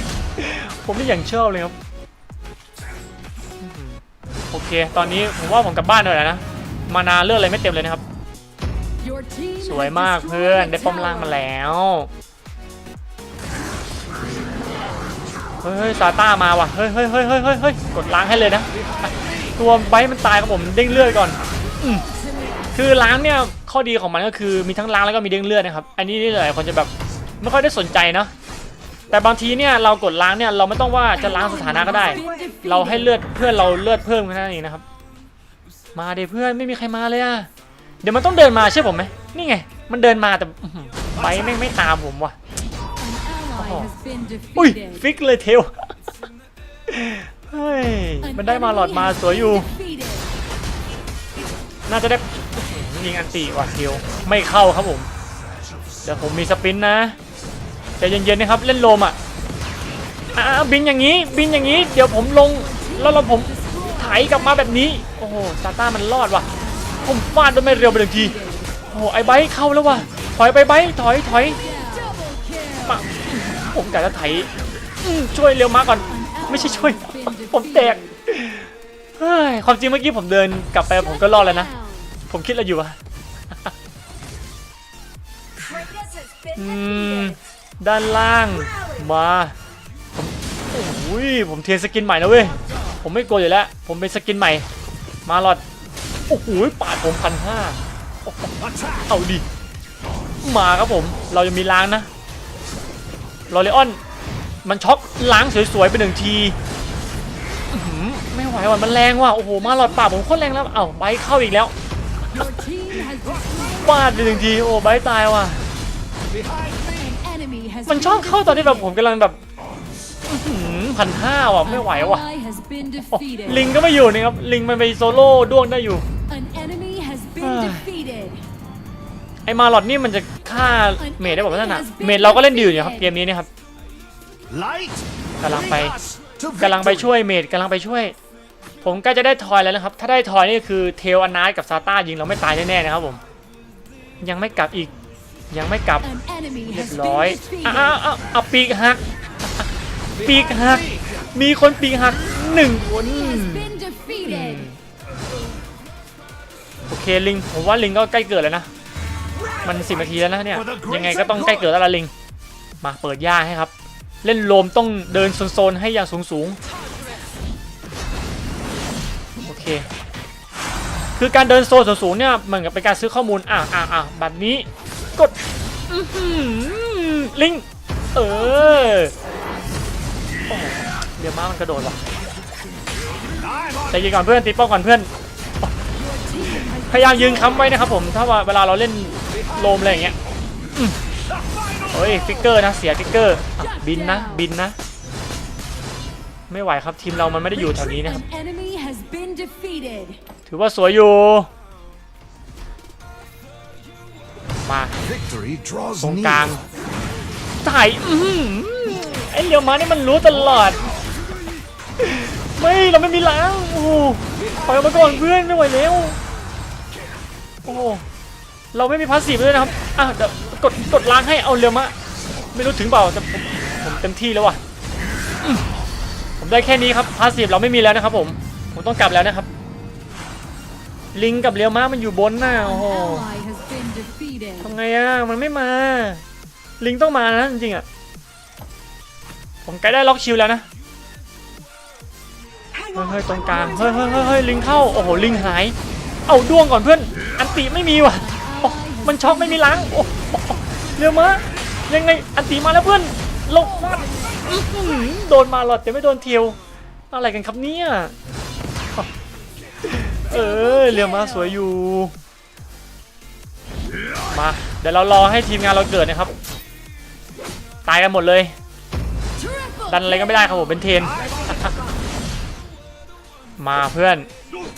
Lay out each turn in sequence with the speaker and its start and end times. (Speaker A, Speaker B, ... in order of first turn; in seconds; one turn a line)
Speaker A: 0.4-1.8
Speaker A: 3.6-8.0
Speaker B: 9.0-11.4
Speaker A: 9.6-12.1
Speaker A: 15.6-18.7
Speaker A: 19.6-22.1
Speaker A: 22.7-28.3
Speaker A: 29.1-34.9
Speaker B: 31.4-33.0
Speaker A: 36.0-37.5
Speaker A: 38.0-42.4
Speaker B: 43.0-45.0
Speaker A: 43.6-43.9
Speaker A: 44.6-45.9
Speaker A: 46.9-49.7
Speaker B: 48.3-50.3
Speaker A: 51.9-55.1
Speaker A: 56.0-57.2
Speaker A: 58.0-59.2
Speaker A: 60.4-66.5
Speaker A: 67.0-71.6
Speaker B: 68.3-68.7
Speaker B: 71.6-72.8
Speaker A: 72.9-74.5
Speaker A: 75.0-81.7
Speaker B: 76.2-78.0
Speaker B: 81.3-82.0
Speaker A: 82.2-83.0
Speaker A: 86.5-89.5
Speaker A: 90.1-94.7
Speaker A: 95.3-95.6
Speaker A: 96.3-99.5
Speaker A: 100.4-102.1
Speaker A: 103.5-104.0
Speaker A: 104.6-106.6
Speaker A: 107.7-111.7
Speaker B: 112.4-113.8
Speaker A: 113.7-115.7
Speaker C: 116.3-117.0
Speaker B: 116.9-118.8
Speaker A: 117.9-119.4
Speaker A: 120.3-122.3
Speaker B: 121.7-123.6
Speaker A: 123.1-126.0
Speaker B: 126.3-128.4
Speaker A: 127.4-127.8
Speaker A: 129.5-133.5
Speaker B: 131.1-133.0
Speaker C: 134.5-137.1
Speaker A: 135.4-136.0
Speaker A: 136.6-138.2
Speaker A: 138.8-143.2
Speaker A: 144.2-144.9
Speaker A: 145.5-146.1
Speaker B: 146.2-147.9
Speaker A: 146.7-149.0
Speaker A: 150.2-154.8
Speaker B: 153.1-154.7
Speaker A: 156.9-158.7
Speaker A: 159.6-162.1
Speaker A: 162.8-163.7
Speaker A: 164.2-166.6
Speaker A: 169.4-169.9
Speaker A: 171.2-175.3
Speaker A: 175.9-179.1
Speaker A: 180.5-182.0
Speaker A: 183.9-185.1
Speaker B: 186.2-187.7
Speaker A: 186.4-190.2
Speaker A: 191.9-194.8
Speaker A: 196.5-198.2
Speaker B: 197.8-200.2
Speaker A: 200.5-201.5
Speaker A: 204.6-205.0
Speaker C: 205.1-206.5
Speaker A: 206.0-206.6
Speaker A: 207.6-210.8
Speaker A: 212.0-216.2
Speaker A: 217.7-218.1
Speaker A: 218.7-224.6
Speaker A: 226.4-229.5
Speaker A: 231.1-233.3
Speaker B: 232.7-234.7
Speaker A: 234.6-236.2
Speaker A: 236.8-237.8
Speaker A: 239.7-240.7
Speaker A: 242.9-256.6
Speaker B: 248.3-249.7
Speaker A: 257.1-258.1
Speaker A: 259.8-262.1
Speaker B: 260.3-261.3
Speaker A: 264.3-266.3
Speaker A: 267.9-268.5
Speaker B: 269.5-269.8
Speaker A: 269.9-271.8
Speaker A: 273.6-274.3